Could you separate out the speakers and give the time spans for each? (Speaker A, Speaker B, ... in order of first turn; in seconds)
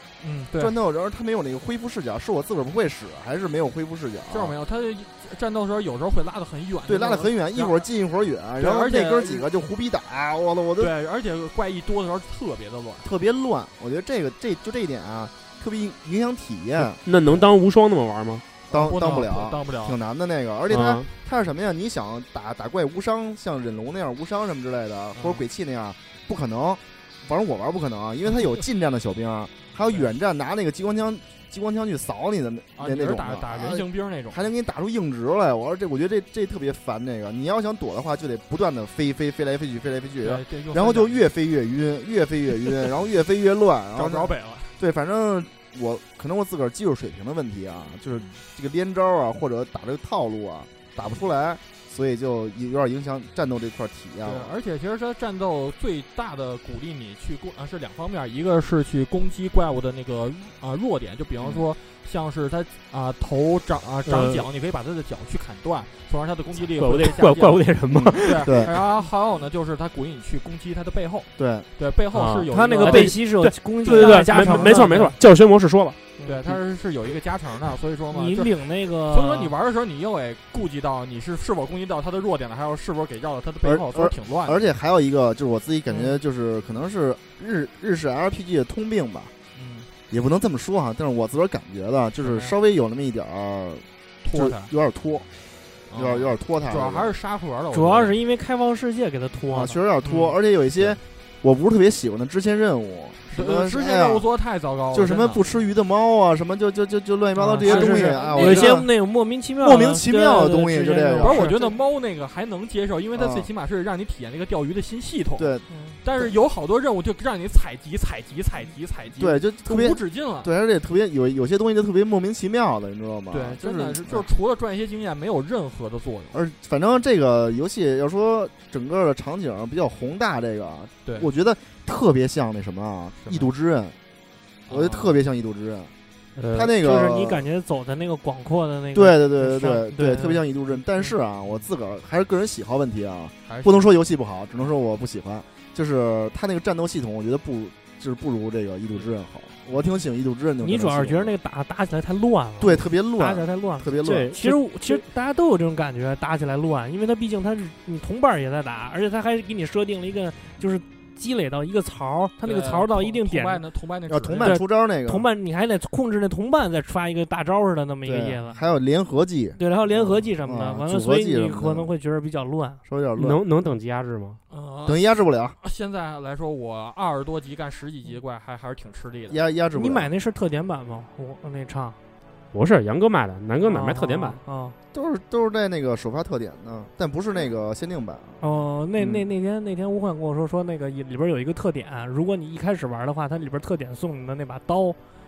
Speaker A: 0.2-0.7, 4.3-7.8, 8.6-9.5, 10.8-13.1, 18.7-20.0, 25.1-25.4, 32.8-34.5, 40.2-41.3, 43.9-44.7, 54.2-67.6, 68.2-73.2, 73.8-75.1, 76.2-84.7, 89.5-89.9, 92.2-92.5, 94.2-94.7, 95.9-98.1, 103.3-105.5, 107.6-108.8, 111.2-115.5, 116.0-120.5, 123.3-126.4, 133.2-133.5, 134.7-135.2, 143.5-144.0, 162.4-164.6, 174.5-175.0, 175.6-179.4
Speaker B: 0.5-4.5, 6.8-10.9, 13.0-17.0, 18.7-54.5, 67.9-68.7, 71.4-71.7, 83.6-89.3, 90.1-95.3, 95.9-97.1, 99.5-104.2, 104.9-108.9, 109.6-111.7, 113.1-113.5, 115.4-116.3, 119.2-124.3, 126.3-133.9, 134.7-135.9, 136.5-137.4, 138.9-151.3, 152.6-154.3, 164.1-165.2, 168.0-171.9, 172.8-173.4, 174.8-175.6, 179.3-180.1, 184.9-188.4
Speaker C: 17.0-18.4, 20.7-21.1, 64.0-64.5, 66.7-68.7, 72.1-76.0, 136.4-136.7, 154.0-155.0, 173.2-174.4, 182.5-184.4
Speaker D: 72.5-75.2, 78.1-79.5, 97.7-100.2, 107.4-111.5, 115.7-116.0, 136.5-140.4, 150.6-163.6, 164.4-168.6, 169.6-172.8, 179.7-182.0, 183.6-184.8, 188.4-195.0